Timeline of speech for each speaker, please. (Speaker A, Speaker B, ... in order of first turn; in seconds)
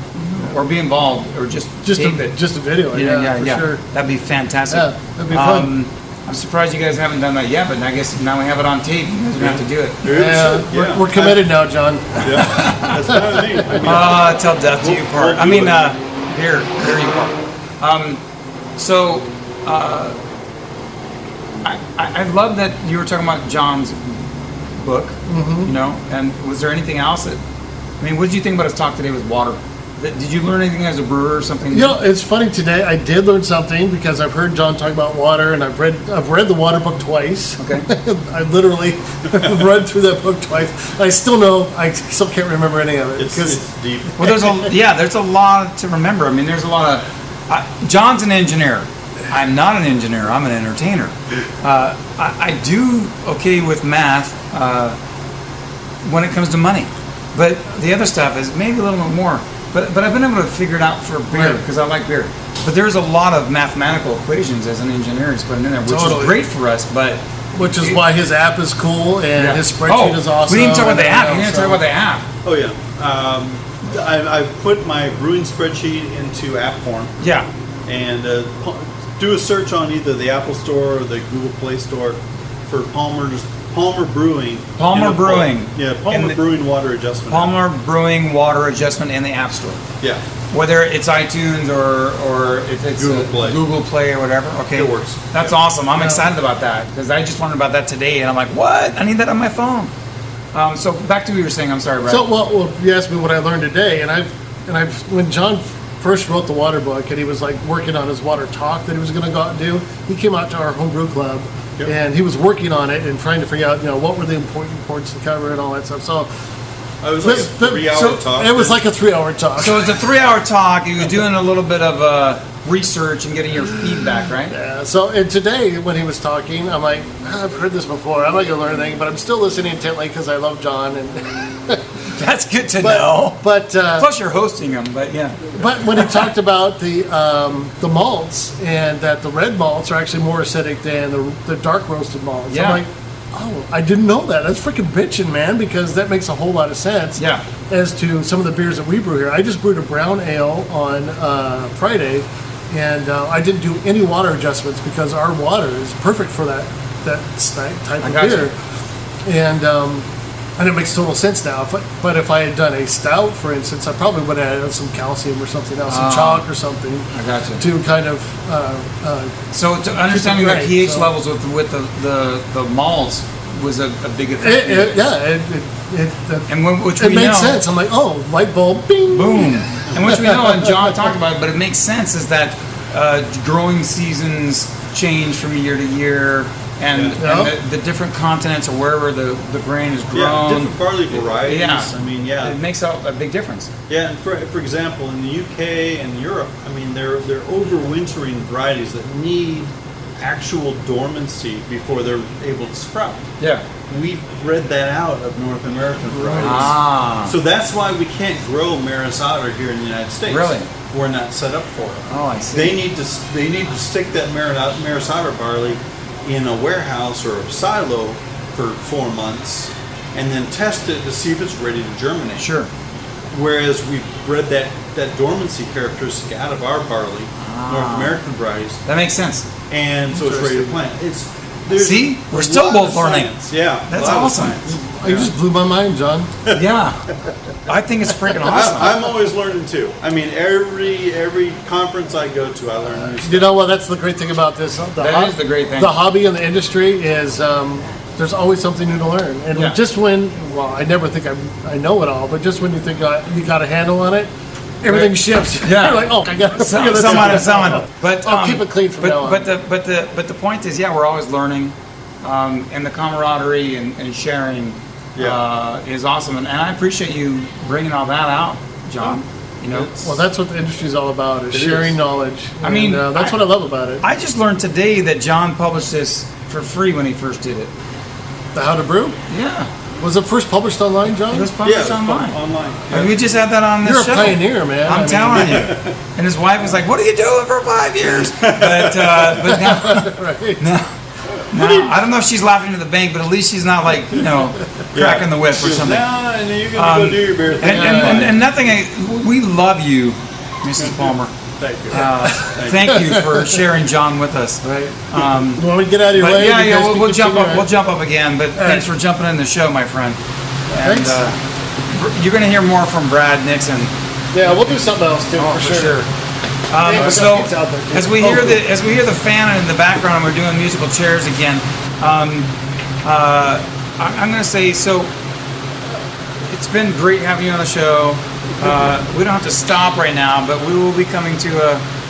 Speaker A: 0.2-2.3, 2.9-10.1, 12.2-13.0, 13.8-18.2, 18.8-20.2, 21.6-24.2, 24.8-27.4, 28.0-31.9, 37.6-37.9, 44.2-55.0, 56.0-68.0, 69.4-72.2, 77.2-77.5, 84.8-86.4, 87.3-89.8, 90.5-99.9, 100.5-102.3, 119.6-124.5, 132.1-133.4, 134.0-136.2, 142.5-142.8, 147.2-147.4, 158.0-158.5, 165.9-166.4, 167.1-167.6, 169.5-175.0, 176.5-177.6, 179.1-190.8, 191.3-193.7, 203.4-203.6, 206.4-207.3, 210.3-210.7, 212.1-212.8, 222.4-222.7, 227.4-228.2, 228.8-229.5, 231.7-233.3, 233.9-234.7, 236.5-237.0, 237.7-239.0, 245.0-245.9, 254.9-269.9, 272.6-273.3, 274.0-277.7, 279.3-279.7, 281.3-282.4, 282.9-290.9, 291.5-296.0, 296.7-301.3, 301.9-305.6, 306.1-310.2, 310.7-311.4, 311.9-313.9, 315.3-316.1, 316.7-322.5, 323.0-325.1, 326.4-331.8
Speaker B: 1.8-3.8, 4.7-5.7, 10.1-12.4, 13.0-13.8, 25.3-25.7, 31.7-43.6, 61.3-61.6, 65.9-66.4, 67.6-71.8, 96.0-96.2, 102.1-116.3, 117.2-119.8, 124.5-131.8, 132.8-134.1, 135.5-158.5, 159.2-160.1, 160.6-167.1, 167.6-169.3, 170.1-171.1, 174.4-180.9, 187.2-187.5, 234.8-236.3, 243.1-254.3, 254.8-259.4, 270.0-274.0, 278.5-279.2, 280.0-281.5, 283.8-285.7, 289.4-290.6, 297.6-298.2, 302.8-303.5, 304.6-307.7, 308.6-308.9, 310.8-311.2, 314.3-316.0, 316.8-318.6
Speaker C: 9.4-11.4, 12.2-15.8, 43.2-44.3, 72.4-77.1, 77.8-87.5, 93.0-93.6, 94.7-95.5, 117.0-118.8, 186.9-187.2, 190.1-192.6, 193.9-203.2, 203.9-222.4, 223.3-228.8, 229.7-235.3, 238.4-243.5, 265.1-265.4, 269.7-270.1, 271.5-271.9, 281.6-283.2, 285.4-285.9, 288.2-289.4, 291.3-291.9, 294.9-298.4, 300.8-302.9